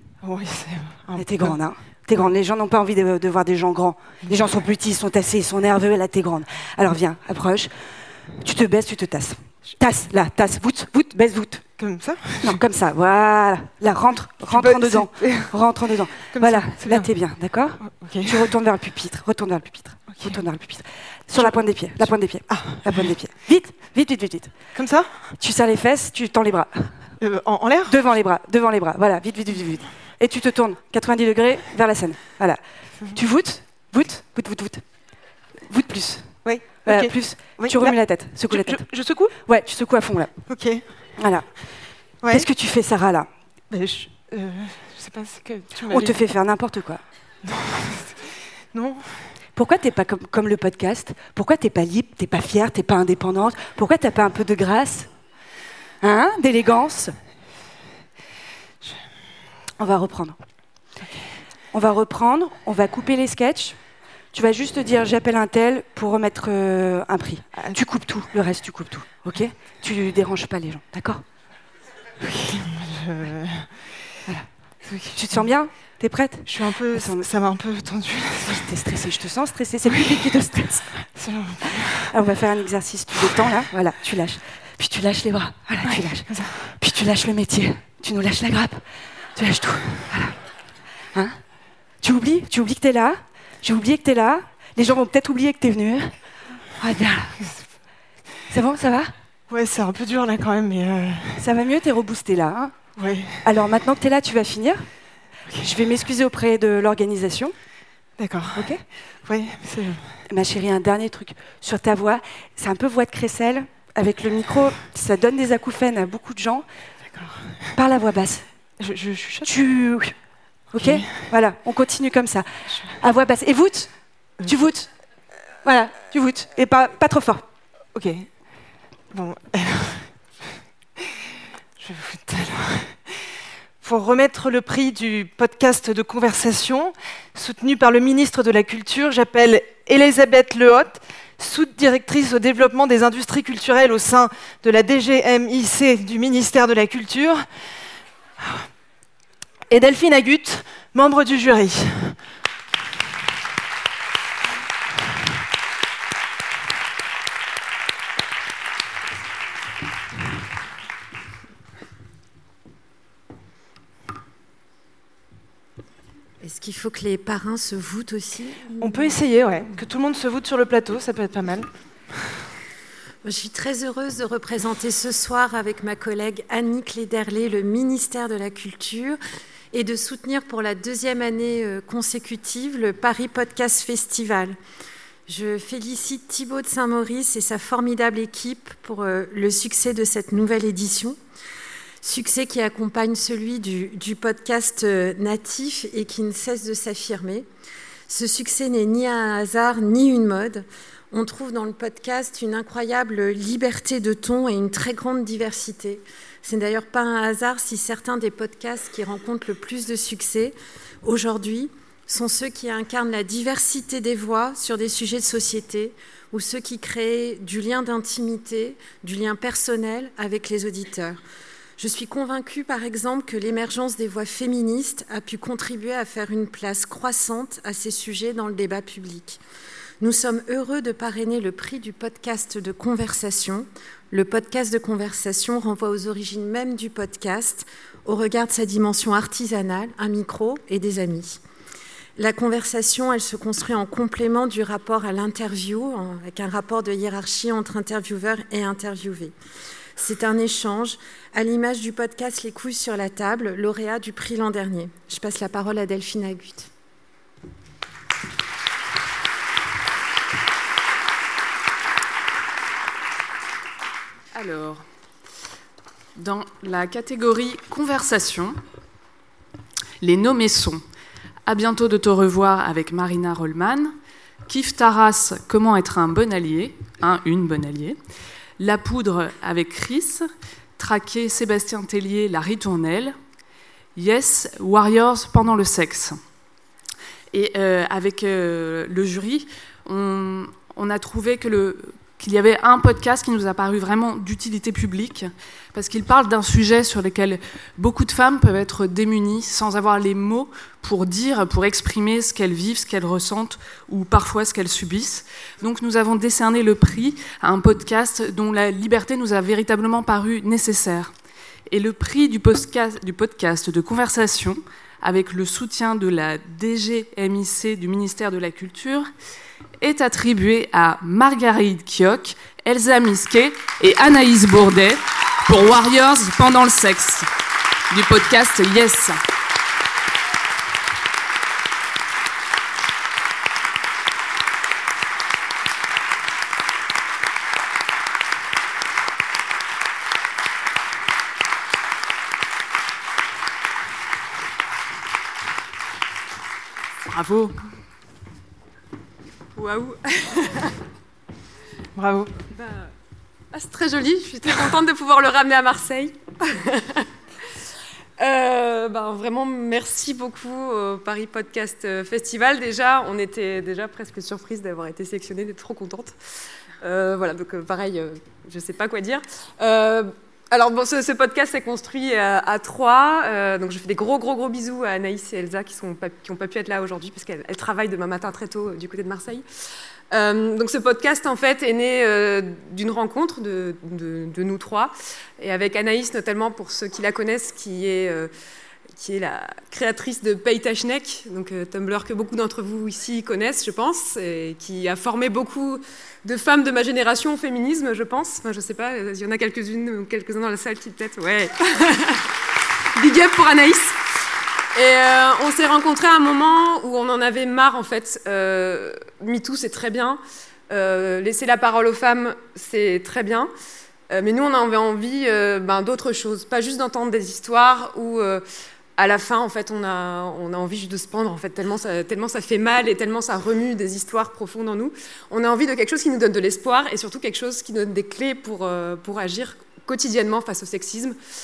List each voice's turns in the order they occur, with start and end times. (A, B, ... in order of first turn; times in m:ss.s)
0:00.2-0:01.6 A
0:01.2-0:11.7 B
0:11.8-0:12.6 A
0:12.4-0:24.6 B
0:14.5-0:15.6 A
0:16.1-0:17.1 A
0:17.8-0:18.5 A
0:20.0-0:20.4 A
0:21.3-0:23.1 A
0:24.8-0:25.2 A
0:25.4-0:27.1 B
0:27.2-0:28.0 A
0:27.9-0:35.0 B
0:35.7-0:40.4 B
0:36.4-0:39.4 A
0:40.5-0:40.8 A
0:41.2-0:41.5 B
0:42.3-0:43.3 B
0:43.7-0:46.2 A
0:45.8-0:47.0 B
0:47.5-0:48.2 A
0:48.7-0:49.2 A
0:49.6-0:55.1 B
0:56.0-0:57.2 B
0:59.8-1:00.4 B
1:01.7-1:03.8 B
1:04.3-1:11.2 B
1:07.5-1:07.8 A
1:12.3-1:13.7 A
1:14.9-1:15.5 A
1:15.0-1:17.3 B
1:16.5-1:18.7 A
1:18.5-1:21.0 B
1:21.1-1:21.7 A
1:21.7-1:30.4 B
1:25.9-1:26.5 A
1:31.1-1:31.4 B
1:32.0-1:36.1 B
1:36.8-1:37.3 B
1:38.5-1:39.1 B
1:39.5-1:41.4 A
1:41.4-1:42.8 B
1:43.0-1:43.4 A
1:43.4-1:44.9 B
1:45.6-1:47.6 B
1:48.2-1:50.1 A
1:48.6-1:48.8 B
1:50.3-1:56.7 B
1:57.8-1:58.5 B
1:58.8-1:59.5 A
1:59.4-2:00.1 B
2:00.7-2:01.3 A
2:00.7-2:04.9 B
2:05.6-2:07.4 B
2:08.0-2:08.3 A
2:09.1-2:10.1 A
2:11.8-2:13.2 A
2:13.8-2:27.4 A
2:29.7-2:32.1 A
2:46.4-2:49.1 C
2:48.8-2:51.7 A
2:53.2-2:59.2 C
2:59.7-3:04.6 C
3:05.3-3:11.2 C
3:12.0-3:17.5 C
3:18.1-3:41.2 C
3:41.8-3:49.4 C
3:50.0-4:01.4 C
4:02.2-4:09.4 C
4:10.0-4:16.7 C
4:24.3-4:24.9 D
4:26.2-4:28.6 D
4:30.0-4:30.8 D
4:31.5-4:34.0 D
4:34.5-4:38.0 D
4:38.6-4:43.2 D
4:44.0-4:46.2 D
4:47.3-5:11.1 D
5:11.7-5:19.1 D
5:19.8-5:27.3 D
5:27.9-5:29.2 D
5:49.6-5:50.7 E
5:52.0-5:52.4 A
5:52.5-5:52.9 E
5:53.5-5:57.0 E
5:58.2-6:06.2 E
6:06.8-6:19.4 E
6:20.1-6:28.3 E
6:29.0-6:42.2 E
6:43.0-6:44.0 E
6:44.8-6:53.5 E
6:54.1-6:58.4 E
6:59.0-7:11.2 E